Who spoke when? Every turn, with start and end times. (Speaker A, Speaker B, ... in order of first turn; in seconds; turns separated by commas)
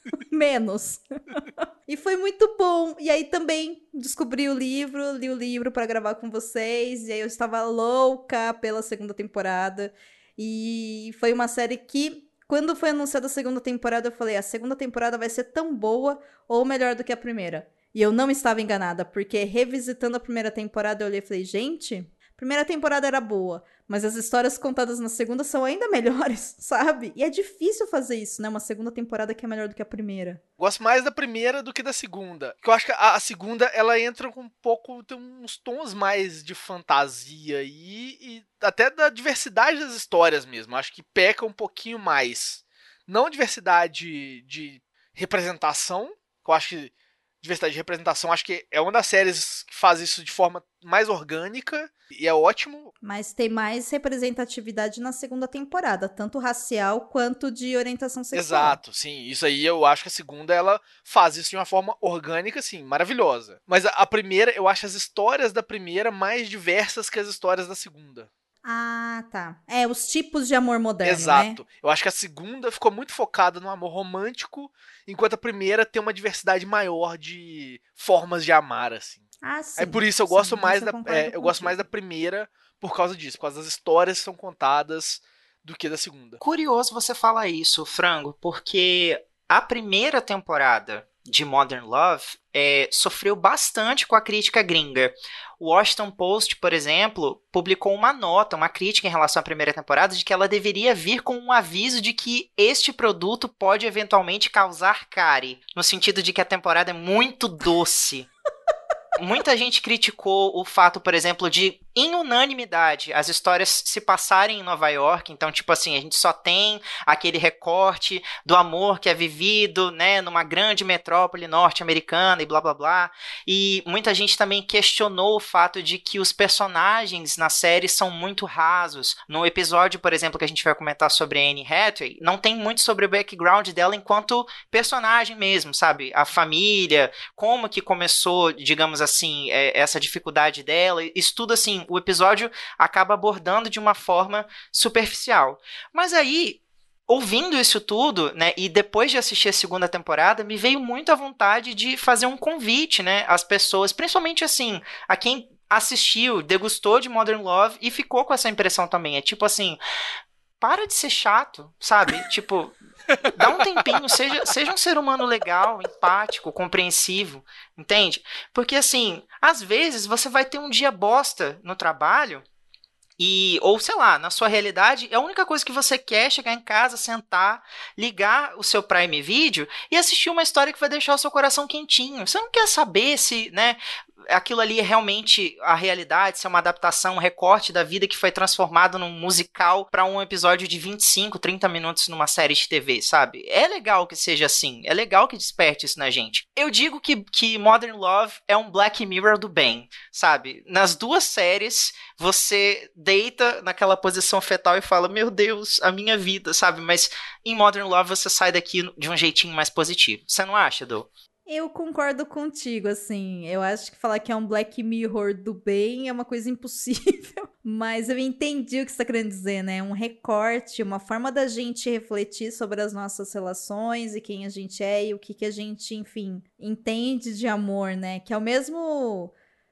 Speaker A: 0.3-30.4, Speaker B: 30.6-52.9, Speaker A: 53.0-58.8, Speaker B: 58.3-68.3, Speaker A: 68.6-71.6, Speaker B: 71.0-79.2, Speaker A: 79.4-81.8, Speaker B: 79.8-86.4, Speaker C: 86.4-108.3, Speaker C: 109.2-159.8, Speaker C: 160.6-162.7, Speaker C: 163.3-172.4, Speaker C: 173.2-211.1, Speaker A: 211.5-229.3